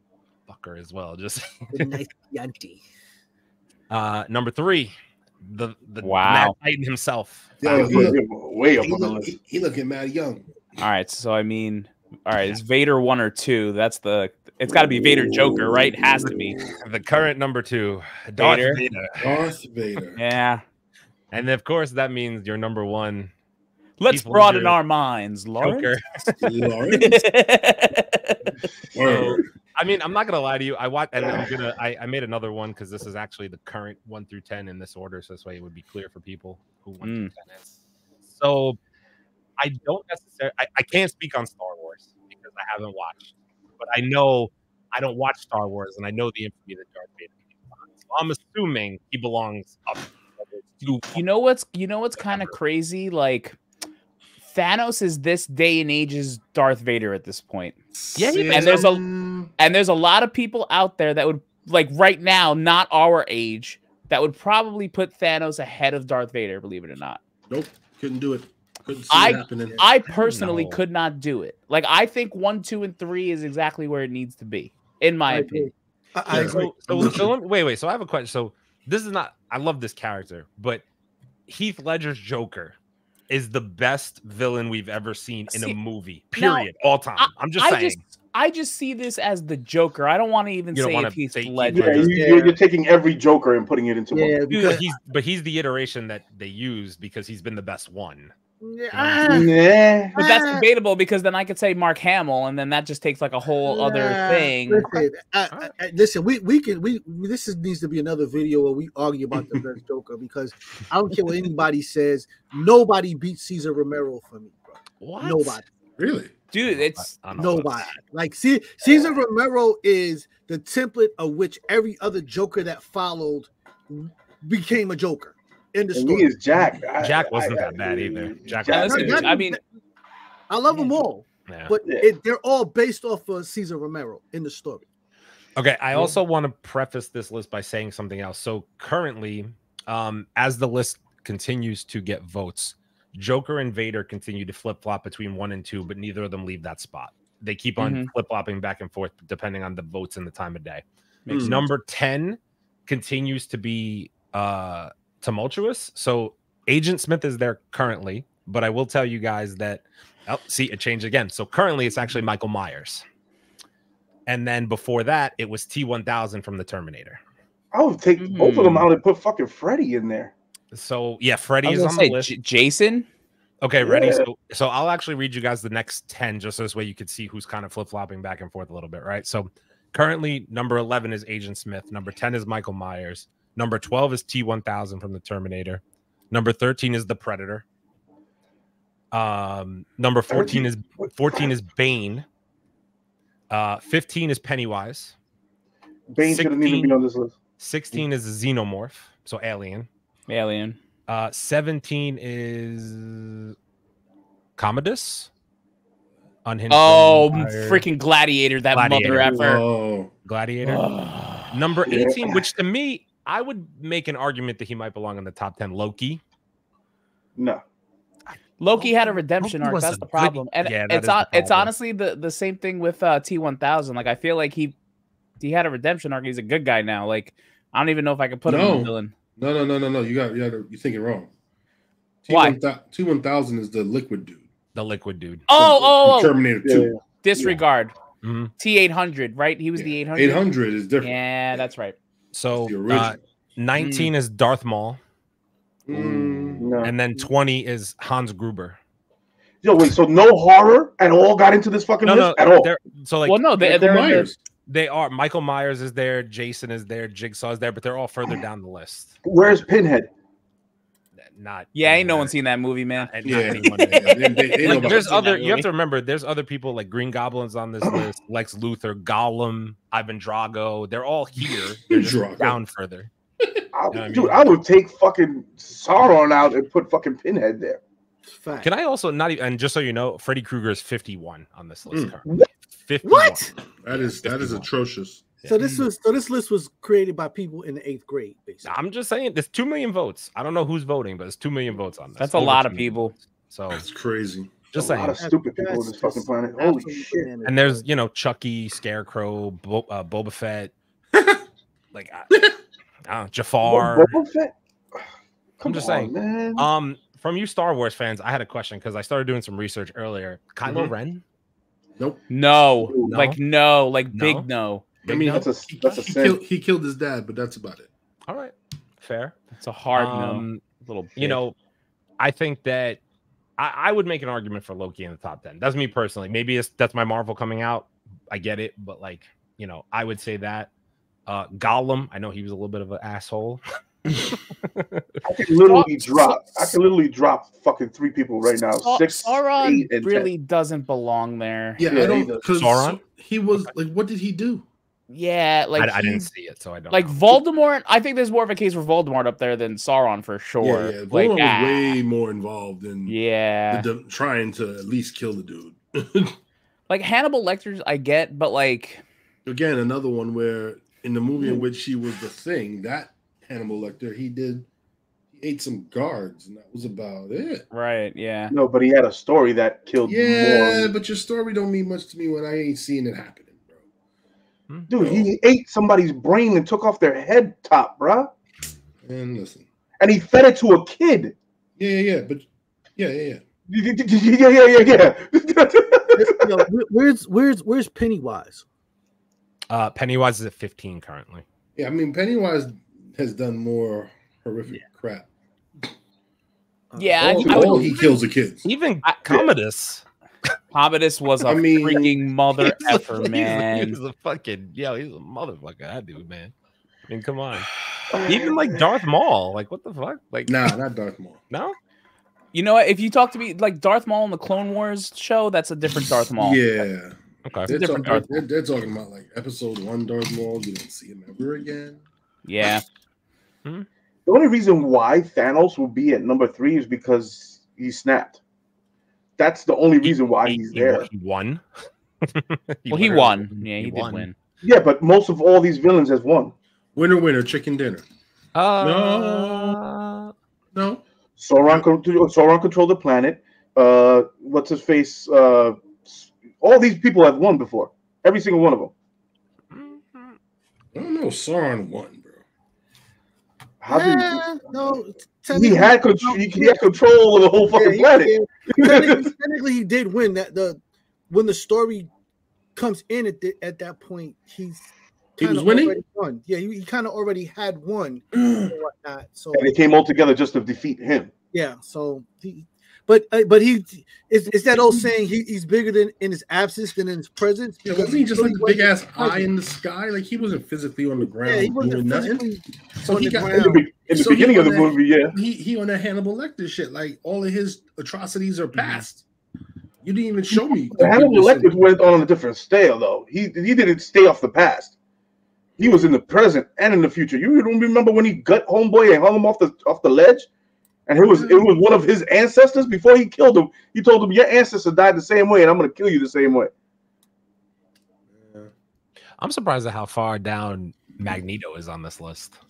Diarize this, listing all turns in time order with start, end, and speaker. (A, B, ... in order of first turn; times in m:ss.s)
0:00.5-0:01.9 A
0:01.7-0:02.8 B
0:03.9-0:08.1 A
0:06.0-0:06.5 C
0:07.6-0:08.2 D
0:07.7-0:09.3 E
0:08.8-0:10.4 D
0:10.8-0:16.6 C
0:16.8-0:19.4 A
0:18.4-0:18.8 C
0:19.2-0:20.2 D
0:20.2-0:20.6 C
0:21.3-0:23.3 A
0:24.0-0:25.9 C
0:24.1-0:24.8 A
0:25.6-0:26.6 A
0:26.4-0:27.2 D
0:26.9-0:28.5 C
0:28.9-0:29.4 D
0:29.0-0:38.8 A
0:37.0-0:37.3 C
0:39.6-0:51.2 A
0:51.1-0:53.6 C
0:52.2-0:52.5 A
0:54.4-0:57.8 C
0:58.0-0:59.5 D
0:58.2-0:58.8 A
0:58.5-0:59.0 C
0:59.6-1:07.2 C
1:07.5-1:09.8 D
1:09.1-1:15.7 C
1:10.1-1:10.8 A
1:15.3-1:17.2 B
1:16.3-1:17.3 D
1:16.3-1:20.8 A
1:21.5-1:22.8 A
1:23.3-1:28.0 A
1:25.5-1:25.8 C
1:26.3-1:32.1 C
1:30.7-1:32.2 A
1:31.7-1:34.4 E
1:32.1-1:32.6 B
1:34.1-1:34.8 B
1:34.5-1:34.8 C
1:34.5-1:38.3 A
1:38.6-1:39.5 B
1:38.9-1:39.4 A
1:39.2-1:40.1 E
1:40.1-1:40.6 B
1:40.1-1:45.0 C
1:43.6-1:54.6 B
1:55.0-1:55.6 A
1:55.2-1:55.7 B
1:56.0-1:56.3 D
1:56.5-1:57.1 C
1:56.6-1:58.0 A
1:57.4-2:06.3 B
2:05.9-2:09.3 E
2:07.0-2:09.3 A
2:08.7-2:09.6 C
2:08.8-2:09.6 B
2:10.5-2:14.8 B
2:11.5-2:11.8 A
2:11.8-2:12.1 E
2:15.6-2:30.8 A
2:27.8-2:28.1 C
2:31.2-2:31.6 C
2:31.3-2:31.6 D
2:31.3-2:43.0 A
2:44.3-2:47.2 A
2:47.7-2:50.3 E
2:48.2-2:48.9 C
2:50.7-2:52.3 A
2:51.6-2:53.1 C
2:53.6-3:07.6 A
2:53.8-2:54.2 E
3:09.1-3:12.2 A
3:10.3-3:10.7 E
3:13.5-3:15.2 A
3:16.1-3:17.3 E
3:16.2-3:17.0 A
3:17.6-3:19.9 A
3:20.3-3:20.8 C
3:21.1-3:23.5 A
3:24.6-3:25.3 A
3:26.4-3:27.8 A
3:26.7-3:29.6 C
3:28.7-3:29.4 A
3:29.0-3:30.1 D
3:30.2-3:30.8 A
3:30.6-3:31.6 C
3:31.5-3:36.2 A
3:31.8-3:32.4 E
3:37.4-3:37.6 E
3:38.3-3:41.7 A
3:38.6-3:44.7 C
3:45.4-3:49.1 C
3:48.4-3:51.3 D
3:52.2-3:54.4 D
3:52.3-3:52.6 C
3:54.7-3:55.5 A
3:55.5-3:56.3 C
3:55.5-3:56.9 D
3:56.6-3:57.6 E
3:57.2-3:57.9 C
3:58.2-3:58.5 A
3:58.6-4:00.4 C
3:59.8-4:01.2 D
4:01.0-4:02.0 C
4:02.3-4:05.0 A
4:02.5-4:03.2 D
4:03.8-4:04.1 C
4:05.8-4:06.9 D
4:05.9-4:08.8 A
4:06.6-4:06.9 E
4:09.6-4:12.7 E
4:12.0-4:13.4 A
4:13.2-4:14.3 C
4:13.6-4:14.4 D
4:14.6-4:19.6 A
4:19.2-4:20.1 E
4:21.3-4:22.3 A
4:21.7-4:25.7 C
4:23.0-4:33.1 A
4:23.2-4:25.1 D
4:31.4-4:32.6 D
4:33.4-4:33.6 D
4:33.7-4:37.8 E
4:33.9-4:34.5 A
4:38.3-4:38.7 B
4:38.6-4:44.7 A
4:43.0-4:43.4 B
4:43.6-4:45.4 D
4:45.5-4:48.7 B
4:45.6-4:45.9 C
4:48.6-4:53.8 A
4:52.2-4:53.1 C
4:53.7-4:54.7 D
4:54.7-4:55.2 A
4:54.7-4:57.3 E
4:55.2-4:57.8 B
4:57.4-5:00.7 A
5:01.1-5:01.4 D
5:01.9-5:02.4 A
5:03.1-5:04.2 A
5:03.6-5:04.5 E
5:05.6-5:06.6 E
5:05.6-5:11.2 A
5:10.6-5:10.9 D
5:12.0-5:12.2 D
5:12.3-5:14.9 C
5:13.0-5:13.4 A
5:14.1-5:14.4 A
5:15.0-5:15.4 A
5:15.0-5:17.9 D
5:15.1-5:16.4 E
5:18.3-5:19.4 A
5:19.6-5:21.4 C
5:19.9-5:20.6 A
5:21.2-5:21.5 A
5:22.2-5:23.0 A
5:23.6-5:30.7 A
5:31.3-5:33.6 A
5:34.1-5:35.2 A
5:35.2-5:40.3 E
5:35.6-5:36.4 C
5:38.5-5:41.8 C
5:41.8-5:44.6 D
5:41.8-5:42.4 E
5:42.5-5:43.0 A
5:45.1-5:46.3 C
5:45.8-5:47.4 A
5:46.9-5:52.0 C
5:50.6-5:53.2 D
5:53.1-5:53.9 C
5:53.7-5:56.4 D
5:56.9-5:59.0 C
5:59.4-6:04.7 D
6:05.3-6:07.6 D
6:07.7-6:08.5 C
6:08.5-6:10.9 E
6:10.0-6:13.7 D
6:14.9-6:18.3 E
6:15.0-6:15.3 D
6:19.0-6:19.6 D
6:20.0-6:21.3 E
6:21.8-6:23.4 D
6:23.7-6:26.6 E
6:26.2-6:28.6 B
6:29.7-6:31.4 A
6:31.8-6:35.3 D
6:36.9-6:37.7 B
6:37.0-6:38.1 C
6:37.2-6:38.6 D
6:38.6-6:40.0 A
6:39.0-6:39.4 C
6:40.7-6:44.0 C
6:41.4-6:42.2 D
6:42.6-6:46.5 A
6:47.1-6:50.7 A
6:48.1-6:48.9 E
6:50.5-6:51.4 D
6:51.5-6:51.8 A
6:52.5-6:56.8 C
6:56.4-7:02.0 D
6:57.4-6:57.7 A
6:57.7-6:58.4 C
7:02.4-7:02.8 C
7:04.2-7:08.4 E
7:09.4-7:11.1 E
7:10.0-7:11.6 A
7:12.2-7:14.3 A
7:12.9-7:14.3 C
7:14.6-7:16.5 E
7:16.9-7:18.0 D
7:18.5-7:20.3 A
7:18.8-7:19.8 D
7:20.7-7:21.0 D
7:21.4-7:28.9 E
7:29.7-7:30.4 A
7:30.9-7:32.4 D
7:33.8-7:34.4 E
7:33.9-7:36.9 B
7:35.5-7:39.3 E
7:37.7-7:42.1 B
7:42.7-7:49.7 B
7:45.4-7:46.0 D
7:48.3-7:48.7 D
7:49.5-7:51.3 E
7:51.5-7:59.5 B
7:57.8-8:02.4 D
8:01.4-8:03.8 B
8:03.0-8:09.2 D
8:03.5-8:05.3 E
8:08.8-8:09.0 A
8:10.0-8:11.8 D
8:10.5-8:14.9 E
8:15.8-8:20.5 E
8:21.1-8:26.7 E
8:21.3-8:21.7 D
8:28.3-8:28.7 D
8:29.4-8:32.6 A